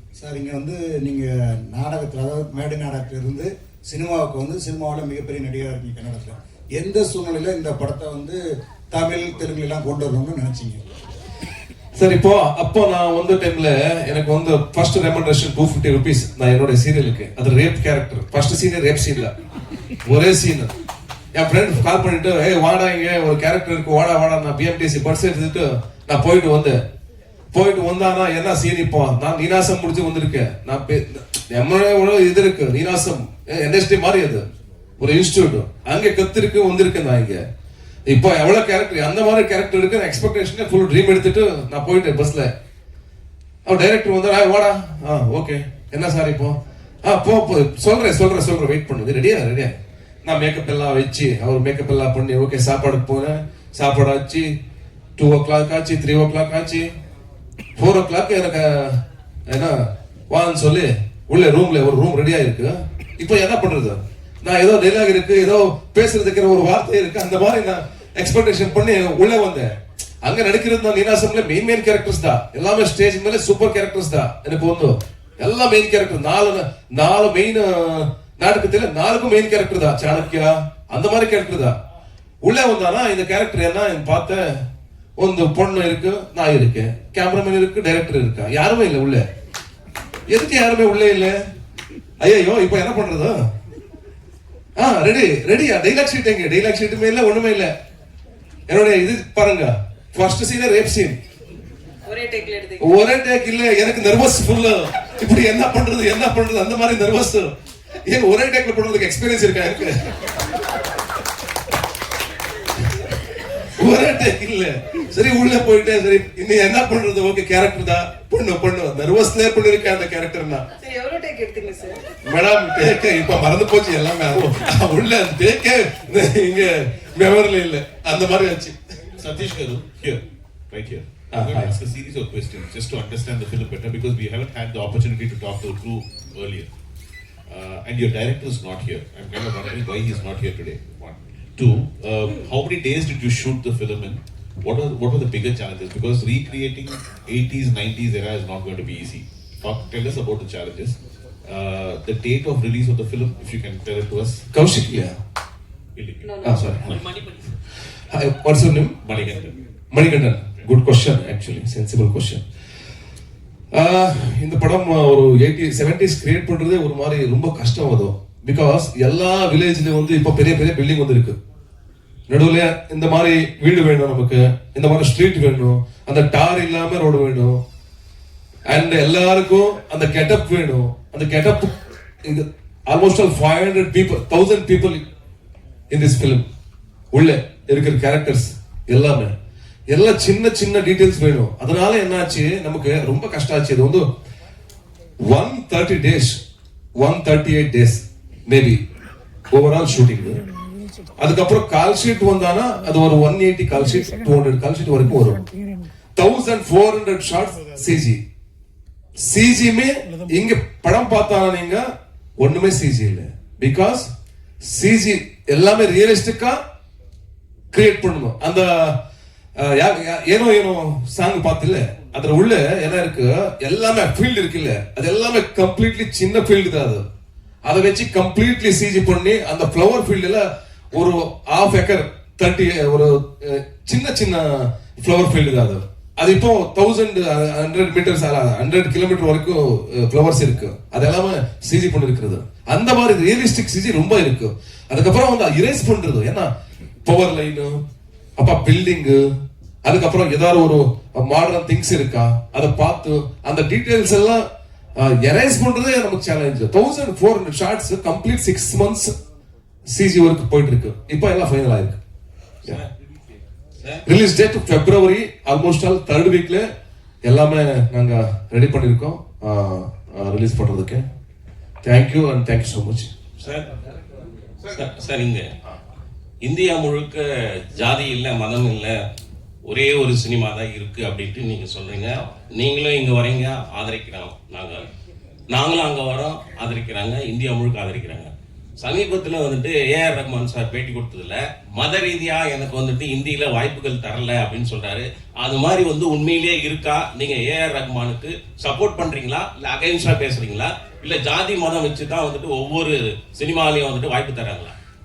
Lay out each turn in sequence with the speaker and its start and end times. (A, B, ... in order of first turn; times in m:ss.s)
0:00.2-0:08.4 A
0:08.9-0:10.9 A
0:11.9-0:19.3 B
0:20.0-0:20.7 B
0:21.3-0:26.8 B
0:27.5-0:34.4 B
0:35.0-0:37.4 B
0:38.0-0:42.5 B
0:43.6-0:54.5 B
0:55.2-0:56.9 B
0:57.8-0:59.8 B
1:00.3-1:09.7 B
1:10.2-1:21.7 B
1:22.4-1:24.5 B
1:25.2-1:29.2 B
1:30.3-1:31.4 B
1:32.2-1:33.3 B
1:34.8-1:37.7 B
1:38.7-1:41.2 B
1:42.1-1:42.8 C
1:42.8-1:47.5 B
1:48.0-1:50.2 B
1:53.7-2:00.6 B
2:00.8-2:02.0 C
2:02.2-2:08.8 B
2:09.2-2:16.7 D
2:11.3-2:11.7 B
2:17.5-2:34.4 D
2:34.5-2:35.1 B
2:36.0-2:36.4 D
2:36.2-2:36.8 C
2:36.4-2:37.2 B
2:38.1-2:38.9 B
2:39.0-2:39.5 D
2:39.9-2:42.4 B
2:43.7-2:51.4 B
2:52.3-2:57.6 B
2:58.7-3:01.7 B
3:02.2-3:05.0 B
3:05.9-3:06.4 B
3:07.1-3:09.3 B
3:09.9-3:14.0 B
3:15.2-3:16.4 B
3:17.0-3:18.8 B
3:19.5-3:20.4 B
3:21.2-3:25.5 B
3:26.2-3:28.2 B
3:29.2-3:31.8 B
3:32.4-3:34.1 B
3:34.6-3:36.6 B
3:37.7-3:38.9 B
3:39.6-3:47.0 B
3:47.6-4:06.5 B
4:07.0-4:07.8 B
4:08.4-4:09.2 B
4:09.8-4:14.4 B
4:15.0-4:19.1 B
4:19.9-4:22.0 B
4:24.0-4:26.6 B
4:27.2-4:31.0 B
4:31.8-4:33.1 B
4:33.4-4:33.6 E
4:34.7-4:35.4 E
4:36.4-4:37.2 E
4:37.8-4:39.0 E
4:39.7-4:44.8 E
4:45.5-5:04.7 E